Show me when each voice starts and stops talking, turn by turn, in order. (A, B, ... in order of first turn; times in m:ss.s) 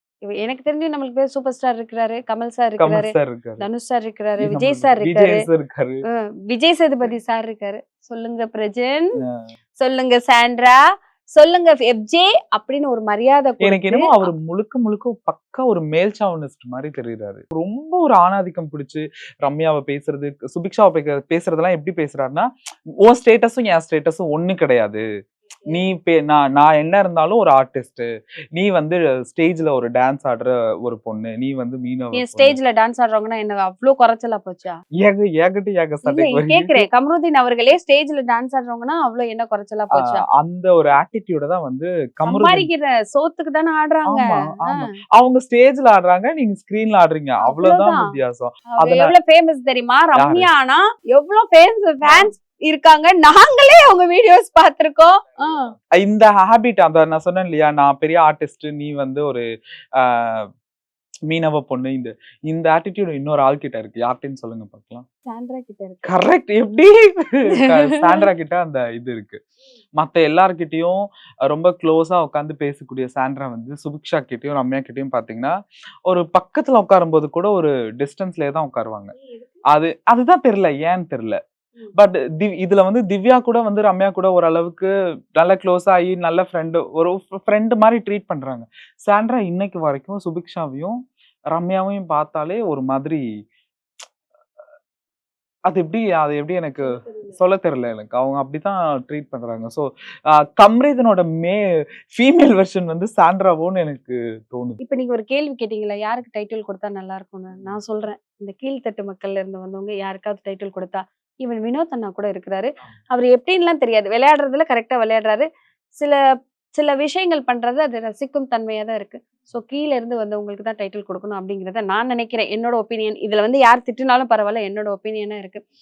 0:00.2-0:05.4 A
0:02.8-0:03.7 B
0:04.4-0:06.0 B
0:06.1-0:09.1 A
0:09.2-0:09.4 B
0:09.8-0:10.8 A
0:11.3-0:14.3 A
0:13.6-0:22.5 B
0:23.0-0:25.0 B
0:25.7-0:32.6 B
0:32.1-0:34.8 A
0:35.0-0:36.8 B
0:36.0-0:40.2 A
0:40.0-0:42.7 B
0:42.2-0:44.9 A
0:44.0-0:49.1 B
0:47.4-0:48.2 A
0:48.7-0:55.7 A
0:50.2-0:50.5 B
0:52.0-0:52.3 B
0:56.0-0:59.4 B
1:00.0-1:00.5 B
1:01.3-1:05.0 B
1:05.2-1:06.1 A
1:06.0-1:09.4 B
1:07.5-1:08.2 A
1:10.0-1:15.6 B
1:16.1-1:19.1 B
1:19.7-1:21.4 B
1:22.0-1:31.0 B
1:31.5-1:33.2 B
1:35.7-1:39.9 B
1:36.8-1:37.4 A
1:40.6-1:41.6 B
1:42.1-1:44.8 B
1:44.8-1:55.5 A
1:56.7-2:05.6 A